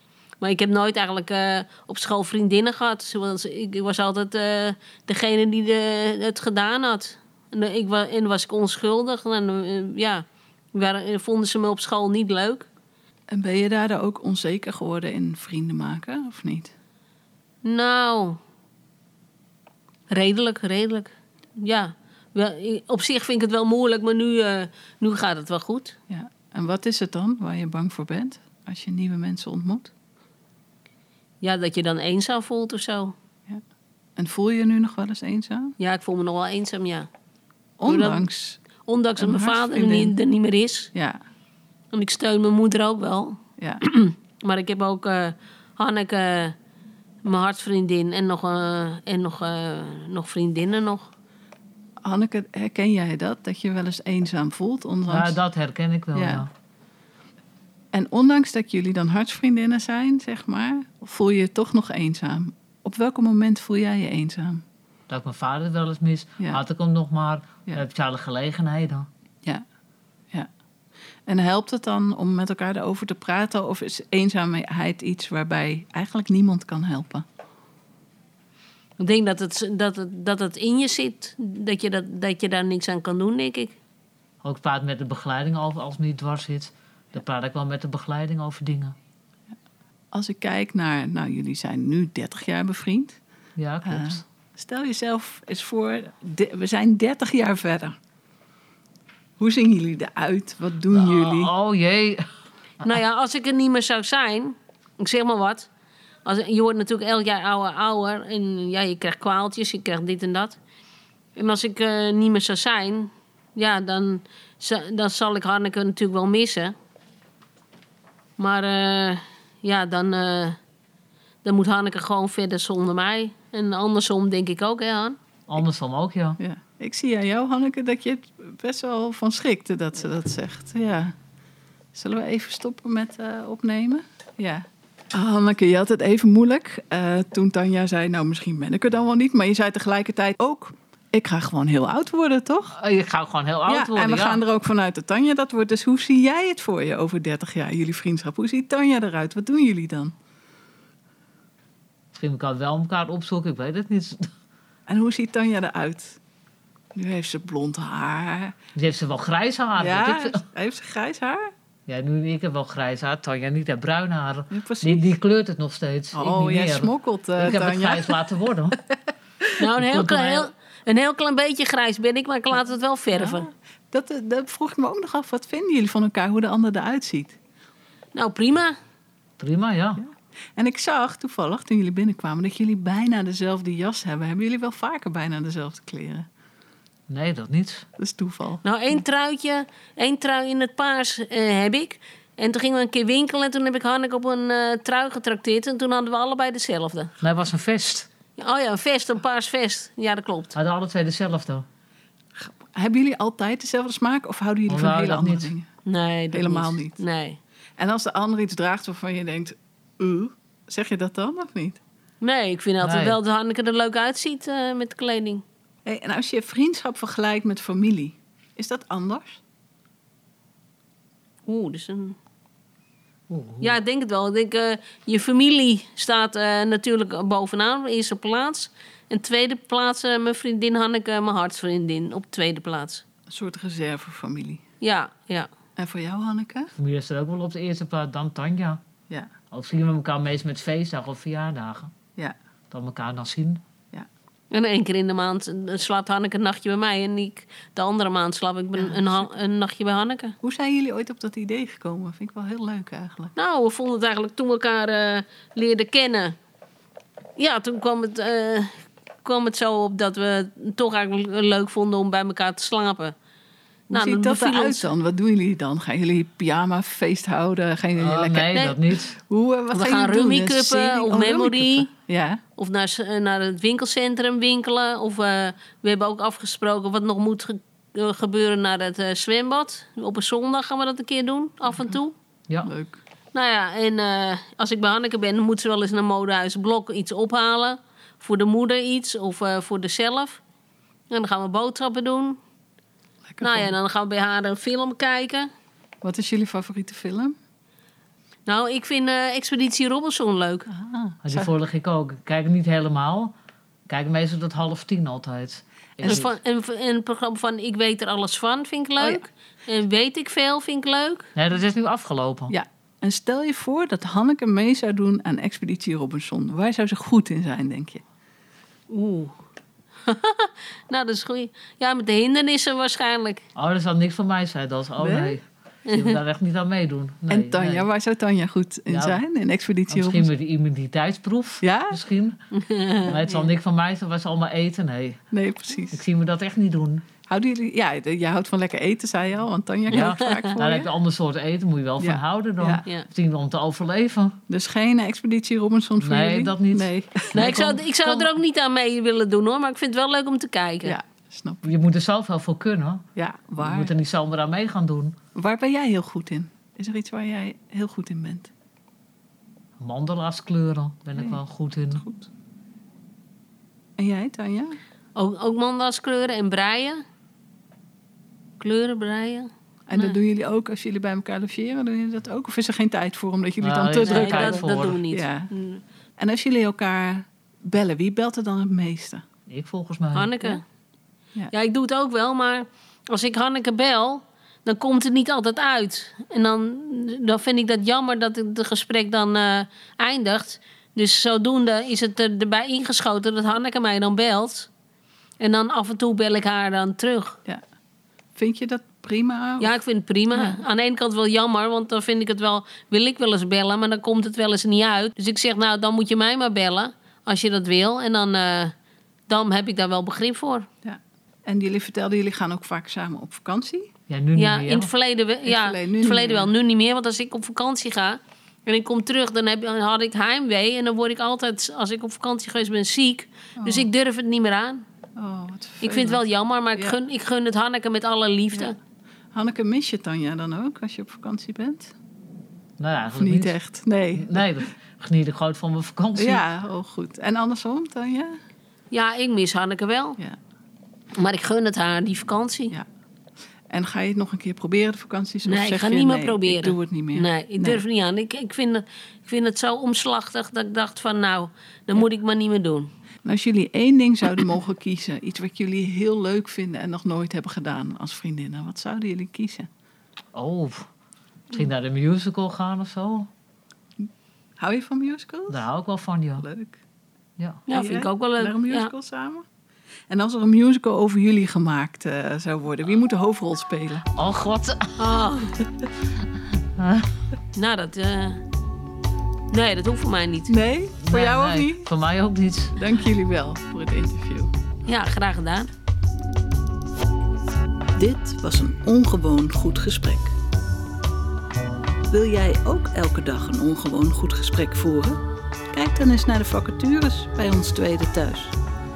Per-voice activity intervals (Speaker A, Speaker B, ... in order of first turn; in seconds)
Speaker A: 0.4-12.7, 17.6-18.4, 20.1-25.9, 31.4-33.1, 35.8-37.1, 37.9-38.3, 38.9-40.9, 41.9-46.5, 47.2-51.1, 79.0-83.8, 102.8-105.7, 106.2-110.6, 111.3-116.7, 118.4-120.6, 121.4-125.2, 169.6-173.5, 178.1-178.8, 188.6-197.1, 198.4-200.6, 205.9-207.4, 212.2-215.4, 221.5-222.2, 223.6-233.0, 234.8-235.5, 244.5-250.4, 253.4-256.4, 257.4-263.1, 263.9-264.9, 269.7-271.9, 272.6-282.1, 283.3-290.4, 291.1-292.4, 293.4-295.5, 298.5-300.7, 306.1-311.3, 318.9-319.4, 320.1-323.4, 325.9-326.2, 332.5-333.5, 339.9-340.6, 342.8-343.1, 347.3-351.0, 365.1-367.0, 368.6-370.2, 374.0-375.8, 380.1-380.6, 381.5-394.7, 395.4-397.4, 399.6-408.7, 409.3-410.7, 414.4-424.8, 425.8-428.8, 438.9-440.2, 441.1-442.8, 445.5-452.9, 467.7-468.9, 475.0-475.6, 477.5-478.4, 479.5-480.5, 484.9-485.7
Speaker B: 13.3-16.7, 26.1-29.9, 34.2-35.7, 37.8-38.6, 39.2-40.2, 52.0-55.4, 56.1-56.5, 57.9-64.6, 71.3-77.2, 90.1-93.2, 93.8-98.0, 99.4-101.5, 126.4-131.1, 131.9-142.8, 143.7-150.1, 154.9-156.2, 156.9-158.6, 159.8-161.5, 164.5-165.2, 166.1-168.2, 173.1-177.4, 180.0-186.3, 188.0-188.6, 202.3-205.7, 206.3-207.0, 207.8-211.8, 215.8-219.4, 233.3-234.6, 235.8-236.7, 248.8-249.3, 250.4-253.3, 263.9-268.5, 269.3-272.4, 282.6-283.0, 293.3-293.7, 296.0-297.4, 300.7-301.5, 312.5-318.0, 325.0-325.4, 327.3-330.3, 331.6-332.0, 335.3-336.0, 337.3-340.9, 342.0-342.9, 344.5-348.3, 350.8-351.8, 353.2-353.9, 355.4-358.5, 362.0-362.3, 364.0-364.8, 369.9-375.5, 376.2-379.2, 398.4-399.7, 400.3-400.6, 410.8-413.9, 415.5-416.5, 423.6-423.9, 425.2-426.2, 429.3-431.9, 433.1-434.6, 436.1-438.4, 443.7-447.8, 453.2-459.7, 464.0-465.6, 466.4-466.8, 467.7-469.5, 470.1-474.1, 480.5-481.9, 482.7-484.5, 487.9-490.3, 492.1-495.2, 495.7-498.6
Speaker C: 55.1-56.5, 65.1-69.1, 84.4-89.0, 93.6-94.2, 100.9-102.3, 125.5-126.4, 142.8-144.4, 152.1-154.3, 158.8-160.4, 161.9-168.8, 169.8-170.5, 179.4-180.0, 187.1-187.9, 197.2-198.1, 200.5-201.7, 204.7-205.5, 212.8-213.2, 223.3-223.8, 236.8-238.8, 239.5-241.9, 242.7-243.6, 268.0-269.2, 301.2-303.3, 303.9-306.3, 311.4-312.5, 323.6-327.9, 328.9-329.2, 329.9-332.4, 333.0-335.2, 335.9-337.1, 339.9-344.4, 346.0-347.5, 351.6-353.1, 353.6-355.1, 359.8-362.1, 373.6-375.0, 379.5-380.4, 414.1-414.9, 432.8-433.6, 434.1-436.4, 460.3-460.9, 461.5-463.3, 465.5-466.5, 467.4-467.7, 474.1-475.2, 476.8-477.1, 481.0-482.7